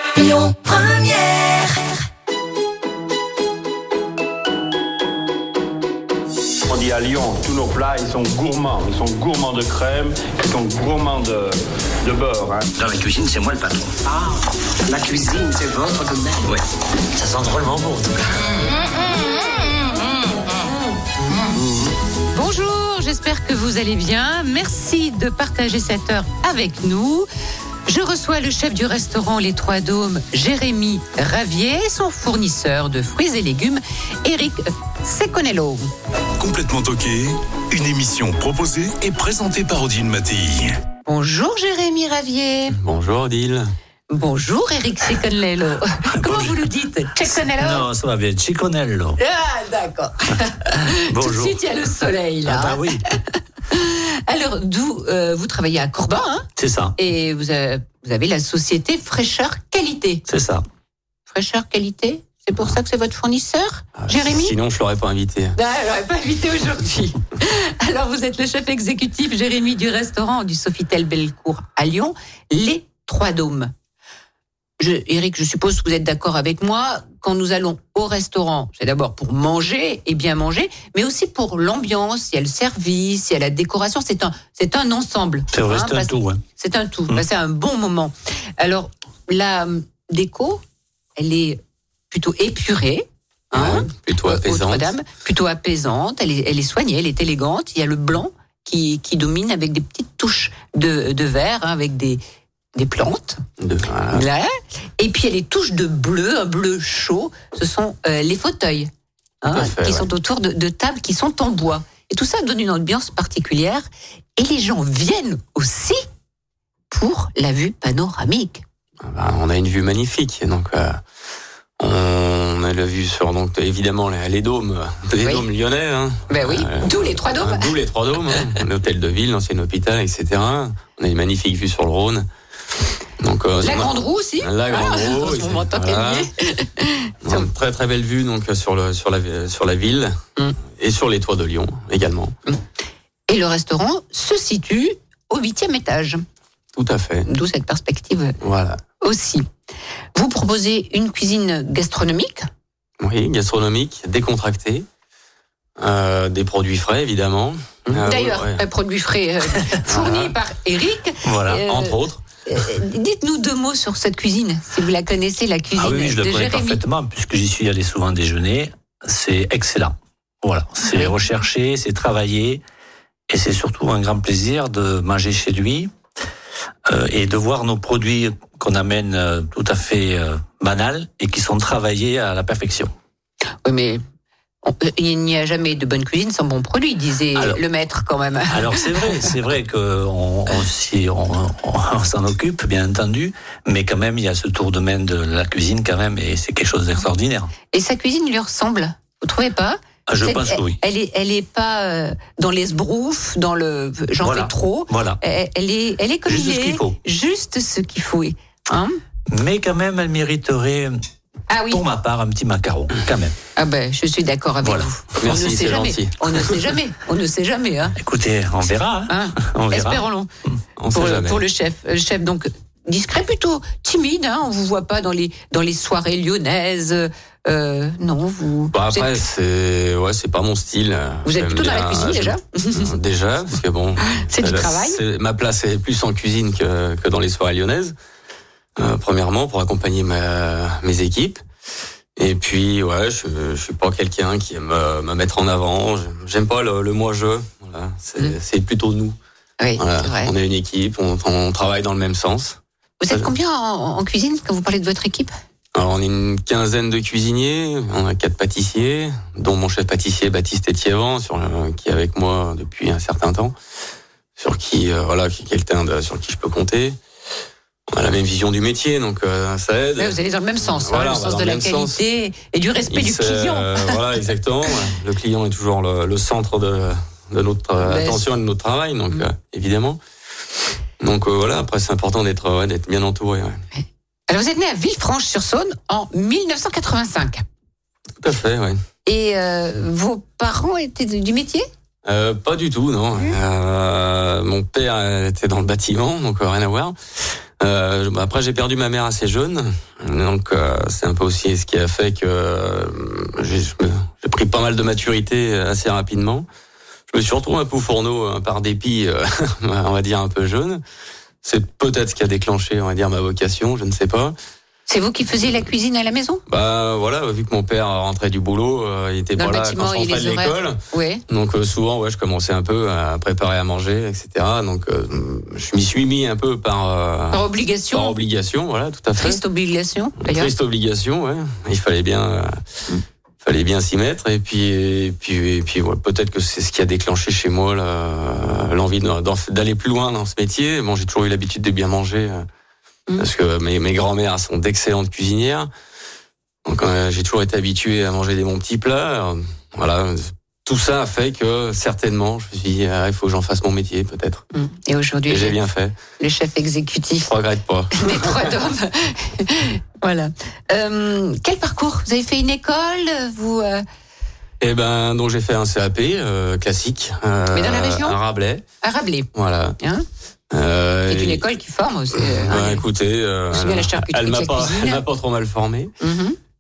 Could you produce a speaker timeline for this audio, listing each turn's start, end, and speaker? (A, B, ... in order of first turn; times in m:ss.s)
0:00.2-0:01.9 A
0:06.7-0:12.7 B
0:12.8-0:16.6 C
0:17.2-0:18.7 C
0:19.2-0:20.0 A
0:22.3-0:27.3 D
0:27.9-0:35.9 D
0:36.4-0:40.8 E
0:41.1-0:42.8 D
0:42.7-0:43.7 F
0:44.1-0:47.9 D
0:46.1-0:46.7 G
0:47.2-0:49.2 G
0:49.2-0:52.8 D
0:51.0-0:51.6 G
0:52.4-0:53.1 G
0:53.7-1:00.2 D
0:56.6-0:57.0 G
1:00.3-1:00.6 G
1:01.3-1:04.6 D
1:04.0-1:05.6 F
1:05.6-1:13.7 D
1:14.8-1:30.6 D
1:25.5-1:26.4 G
1:31.2-1:42.2 D
1:33.5-1:34.9 F
1:42.8-1:43.4 D
1:43.6-1:44.3 F
1:44.1-1:48.9 D
1:49.4-1:53.8 D
1:49.5-1:50.1 F
1:54.4-1:56.0 D
1:56.9-1:58.6 D
1:59.0-2:01.0 F
2:01.8-2:12.3 F
2:06.3-2:07.7 D
2:13.2-2:16.3 F
2:13.6-2:17.5 D
2:17.2-2:20.2 F
2:20.7-2:22.3 F
2:23.3-2:26.2 D
2:26.8-2:27.3 F
2:27.3-2:28.4 D
2:28.4-2:28.8 F
2:29.0-2:29.5 D
2:30.2-2:32.5 D
2:33.0-2:34.9 F
2:35.8-2:38.6 F
2:37.9-2:46.8 D
2:39.9-2:40.3 F
2:41.2-2:41.6 G
2:41.7-2:42.2 F
2:45.8-2:52.6 G
2:50.8-2:51.1 D
2:53.3-2:55.9 G
2:56.9-3:02.9 G
3:03.6-3:04.0 D
3:04.6-3:09.1 D
3:07.4-3:07.6 G
3:08.5-3:17.5 G
3:17.7-3:29.0 D
3:20.1-3:20.8 G
3:24.2-3:25.2 G
3:26.3-3:27.0 G
3:29.3-3:31.0 G
3:31.5-3:31.8 D
3:31.7-3:33.4 G
3:33.6-3:38.0 D
3:35.2-3:36.4 F
3:38.0-3:40.0 G
3:39.1-3:40.3 D
3:40.8-3:41.4 F
3:40.9-3:49.2 D
3:48.7-3:57.9 F
3:51.2-3:52.9 D
3:54.1-3:55.0 D
3:58.8-4:01.4 F
4:02.2-4:09.2 F
4:09.6-4:10.3 D
4:09.8-4:12.6 F
4:13.0-4:15.3 D
4:15.8-4:23.5 F
4:24.4-4:27.0 F
4:27.9-4:32.0 F
4:30.0-4:34.0 D
4:32.9-4:40.0 F
4:37.8-4:38.2 D
4:41.0-4:43.6 F
4:43.8-4:47.4 D
4:48.2-4:48.8 F
4:49.0-4:51.7 D
4:52.0-4:57.0 F
4:57.6-5:06.5 F
5:07.1-5:10.8 F
5:11.4-5:14.4 F
5:14.9-5:16.4 D
5:16.5-5:29.4 F
5:19.4-5:21.2 D
5:27.3-5:28.1 D
5:29.2-5:30.5 D
5:30.2-5:32.5 F
5:33.4-5:42.5 F
5:43.2-5:45.7 F
5:46.7-5:54.4 F
5:54.5-5:55.6 D
5:55.3-5:56.0 F
5:56.2-5:57.3 D
5:57.3-5:58.5 F
5:58.0-6:03.8 D
6:04.6-6:08.6 F
6:07.5-6:08.2 D
6:08.8-6:09.3 D
6:09.4-6:09.8 F
6:10.5-6:11.4 F
6:11.1-6:12.8 D
6:12.2-6:15.9 F
6:13.5-6:15.0 D
6:16.0-6:16.4 D